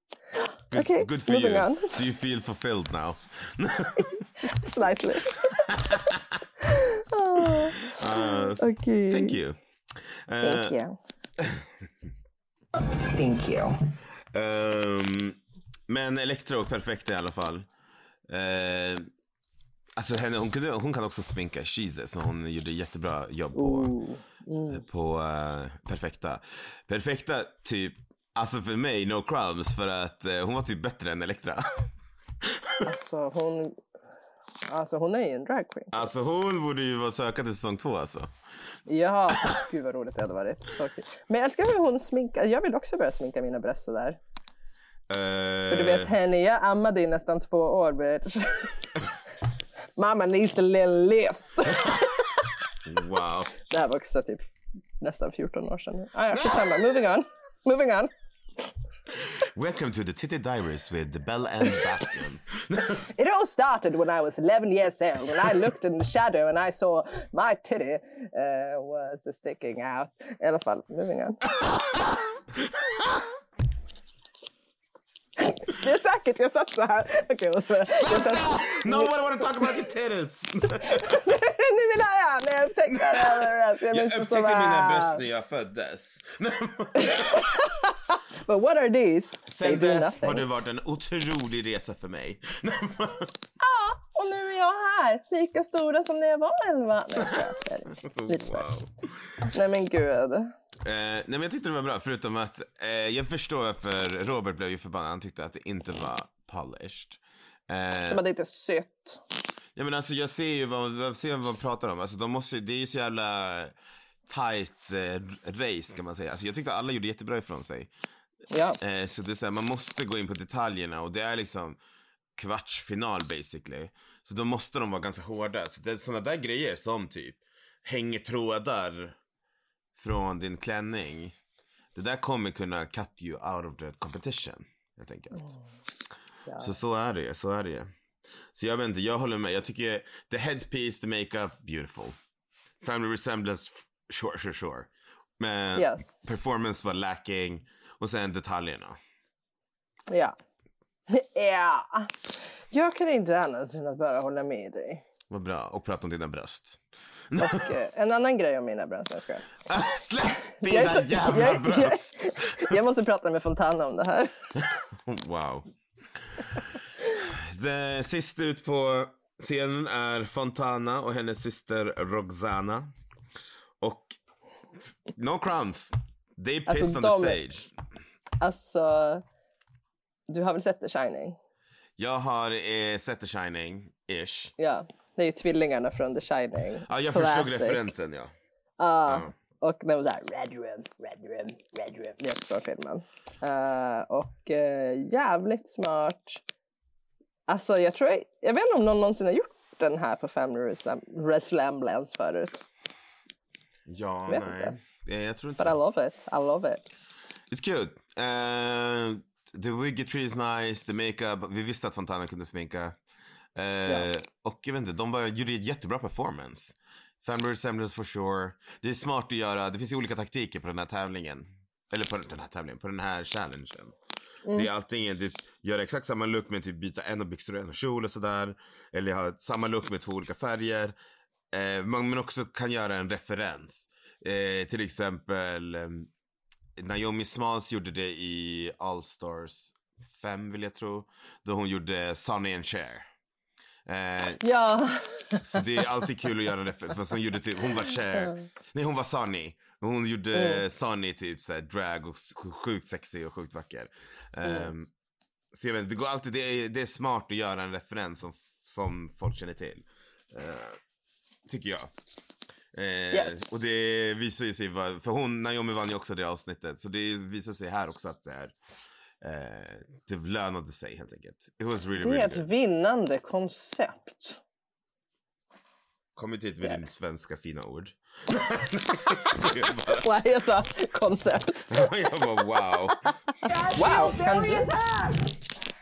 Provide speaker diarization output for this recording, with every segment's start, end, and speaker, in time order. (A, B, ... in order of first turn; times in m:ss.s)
0:00.4-0:02.0 A
0:00.7-0:04.2 B
0:04.4-0:05.6 A
0:05.5-0:06.4 B
0:06.6-0:09.4 A
0:07.4-0:09.6 B
0:10.3-0:10.8 B
0:10.4-0:11.0 A
0:11.4-0:11.7 B
0:12.8-0:13.8 C
0:14.3-0:17.7 B
0:18.3-0:19.1 B
0:20.0-0:23.9 B
0:23.6-0:24.8 A
0:24.7-0:31.9 B
0:32.4-0:32.9 B
0:32.8-0:33.8 A
0:34.7-0:36.1 A
0:35.9-0:38.3 B
0:38.9-0:44.2 A
0:45.1-0:46.1 B
0:45.7-0:48.7 A
0:50.0-0:52.1 A
0:52.8-0:53.5 B
0:53.7-0:54.4 A
0:55.0-0:58.1 A
0:56.3-0:56.8 B
0:59.2-1:03.1 B
1:02.9-1:11.4 A
1:11.6-1:13.3 B
1:15.4-1:19.1 A
1:17.8-1:21.3 B
1:20.9-1:25.2 A
1:22.9-1:27.6 B
1:27.0-1:30.5 A
1:29.5-1:33.4 B
1:33.6-1:38.7 A
1:37.2-1:38.9 B
1:39.5-1:40.5 A
1:40.8-1:48.2 B
1:48.1-1:49.2 A
1:49.8-1:53.7 B
1:54.3-1:57.9 B
1:58.5-1:58.8 A
1:58.8-2:01.8 B
2:02.4-2:09.2 B
2:10.0-2:11.4 B
2:12.0-2:15.6 B
2:16.5-2:16.7 A
2:16.6-2:17.9 B
2:18.5-2:22.2 B
2:22.8-2:29.0 B
2:25.8-2:26.1 A
2:30.1-2:30.4 A
2:31.1-2:35.0 A
2:35.3-2:37.7 B
2:37.4-2:39.5 A
2:39.7-2:42.8 B
2:40.6-2:44.3 A
2:44.6-2:45.7 B
2:46.4-2:52.9 B
2:53.8-2:54.2 B
2:55.1-2:57.7 B
2:56.7-2:57.4 A
2:58.4-2:59.2 A
3:00.3-3:01.4 A
3:02.0-3:04.5 B
3:04.6-3:07.9 A
3:06.9-3:08.3 B
3:08.8-3:16.4 A
3:17.5-3:22.6 A
3:23.9-3:25.8 B
3:24.3-3:24.8 A
3:25.6-3:26.9 A
3:27.5-3:33.0 B
3:33.6-3:44.0 B
3:44.5-3:51.0 B
3:51.5-3:56.1 B
3:56.8-4:03.1 B
4:03.9-4:04.4 B
4:04.4-4:05.8 A
4:05.4-4:14.9 B
4:08.1-4:08.4 A
4:10.3-4:10.6 A
4:14.4-4:14.7 A
4:15.5-4:20.8 B
4:21.5-4:21.9 B
4:22.7-4:28.5 B
4:23.1-4:23.4 A
4:29.2-4:32.5 B
4:32.0-4:34.4 A
4:36.2-4:40.1 B
4:39.9-4:41.9 A
4:41.7-4:43.0 B
4:43.1-4:44.7 A
4:43.4-4:45.4 C